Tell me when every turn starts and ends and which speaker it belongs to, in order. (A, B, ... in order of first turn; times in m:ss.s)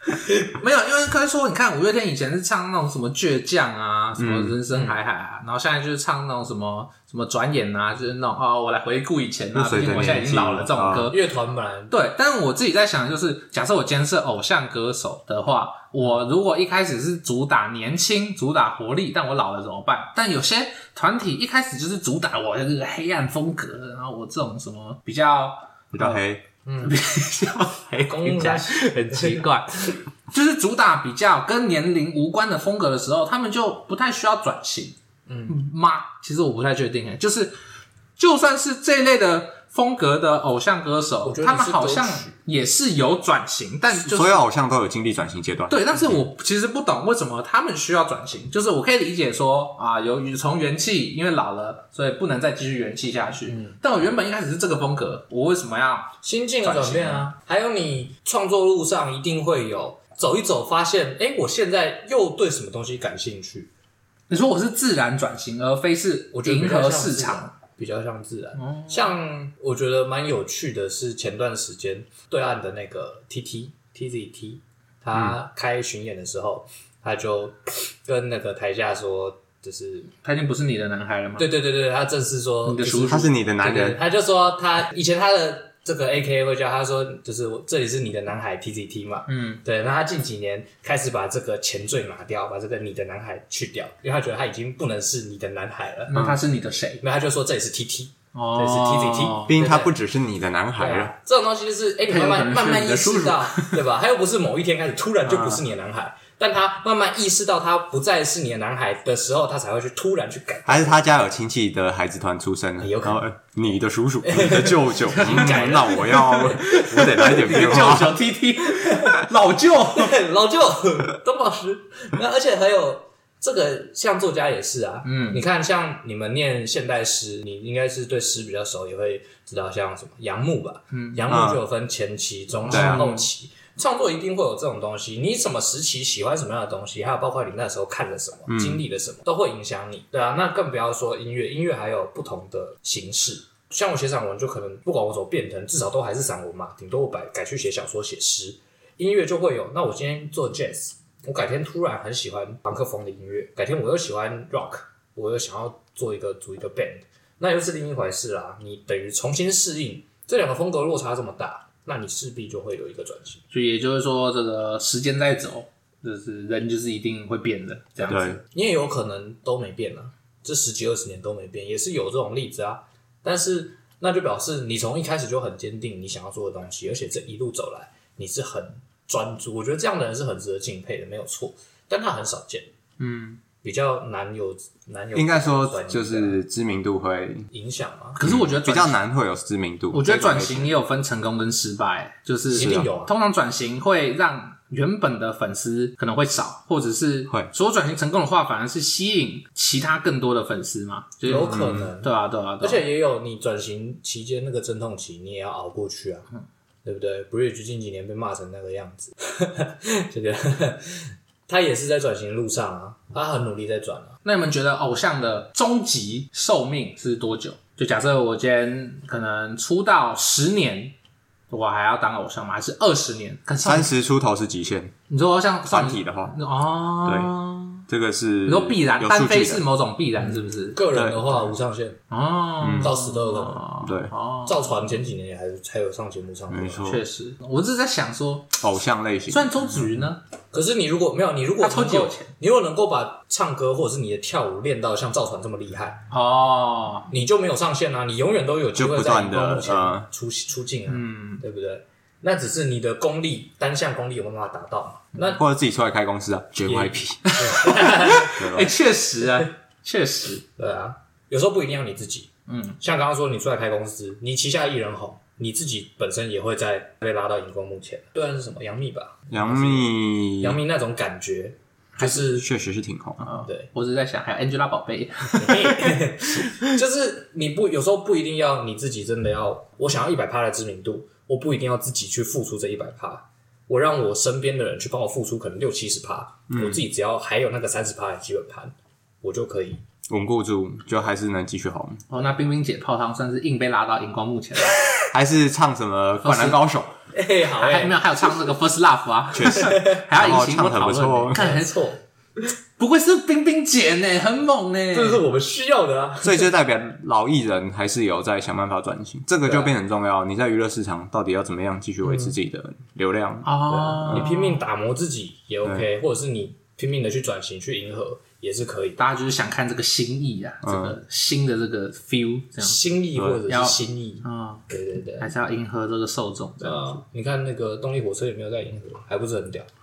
0:00.4-0:11.2 A
0:04.2-0:04.6 B
0:04.7-0:05.0 C
0:09.5-0:11.1 B
0:11.1-0:11.9 C
0:11.9-0:26.2 A
0:25.9-0:26.4 B
0:26.6-0:27.0 C
0:26.8-0:35.0 A
0:28.0-0:29.4 C
0:35.3-0:35.6 C
0:35.5-0:37.5 A
0:38.2-0:44.4 A
0:41.2-0:42.3 C
0:44.0-0:46.2 B
0:45.7-0:57.3 A
0:53.5-0:53.8 C
0:56.2-1:03.7 C
1:04.3-1:07.5 A
1:06.3-1:20.1 C
1:08.6-1:09.1 A
1:20.2-1:21.5 A
1:21.4-1:36.1 C
1:22.6-1:23.3 A
1:23.1-1:24.0 B
1:29.3-1:29.6 A
1:36.1-1:37.0 A
1:36.1-1:36.4 B
1:37.0-1:40.0 C
1:38.3-1:39.6 A
1:39.5-1:41.1 B
1:40.8-1:51.0 C
1:42.1-1:43.8 A
1:45.3-1:45.6 B
1:50.7-1:58.2 B
1:52.8-1:53.2 C
1:54.2-1:56.8 C
1:55.1-2:00.2 A
1:57.4-1:58.0 C
1:58.7-1:59.1 C
1:59.9-2:43.4 C
2:05.0-2:05.4 A
2:10.9-2:11.2 A
2:11.3-2:11.6 B
2:12.7-2:13.1 B
2:12.7-2:13.3 A
2:18.5-2:18.8 B
2:43.5-2:48.4 A
2:48.1-2:48.4 B
2:48.1-3:02.7 C
3:03.0-3:03.4 A
3:03.6-3:06.4 C
3:05.1-3:07.5 B
3:07.5-3:08.2 C
3:08.2-3:09.0 A
3:08.2-3:10.7 B
3:09.9-3:22.8 A
3:12.5-3:13.1 C
3:12.6-3:12.9 B
3:21.2-3:26.3 C
3:21.4-3:21.9 B
3:26.8-3:34.2 C
3:34.2-3:40.9 A
3:41.5-3:43.9 A
3:43.6-3:44.9 B
3:45.1-3:47.8 A
3:45.6-3:46.4 B
3:47.0-3:47.3 B
3:47.9-3:49.6 B
3:48.4-3:50.8 A
3:50.3-3:52.0 C
3:50.9-3:51.5 B
3:52.1-3:54.6 A
3:52.6-3:52.9 B
3:52.8-3:53.7 C
3:53.8-3:54.1 B
3:54.4-3:57.0 C
3:56.5-3:57.0 B
3:56.8-3:58.6 A
3:58.6-4:00.0 B
3:59.3-4:00.2 A
4:00.5-4:06.0 C
4:01.6-4:02.3 A
4:06.1-4:07.1 A
4:07.1-4:15.4 C
4:08.8-4:10.0 B
4:10.9-4:11.4 A
4:15.3-4:17.3 B
4:16.7-4:18.3 C
4:17.2-4:20.4 A
4:18.3-4:18.7 B
4:20.6-4:32.5 C
4:22.5-4:22.8 A
4:29.3-4:30.6 B
4:32.1-4:33.3 B
4:33.2-4:36.6 A
4:35.4-4:49.8 C
4:46.5-4:46.8 B
4:50.1-4:52.0 B
4:52.1-4:54.8 A
4:55.1-4:56.9 B
4:56.2-4:56.6 A
4:57.1-4:58.3 C
4:57.5-5:01.7 A
4:59.3-5:01.4 B
4:59.6-4:59.8 C
5:01.3-5:02.0 C
5:02.8-5:05.2 A
5:04.9-5:06.5 C
5:06.2-5:14.3 B
5:09.4-5:09.7 C
5:12.0-5:12.3 C
5:13.4-5:14.6 A
5:13.7-5:19.0 C
5:19.0-5:22.8 A
5:20.6-5:21.0 B
5:22.6-5:25.3 C
5:23.2-5:23.4 B
5:23.5-5:24.6 A
5:25.2-5:27.0 A
5:26.6-5:29.7 C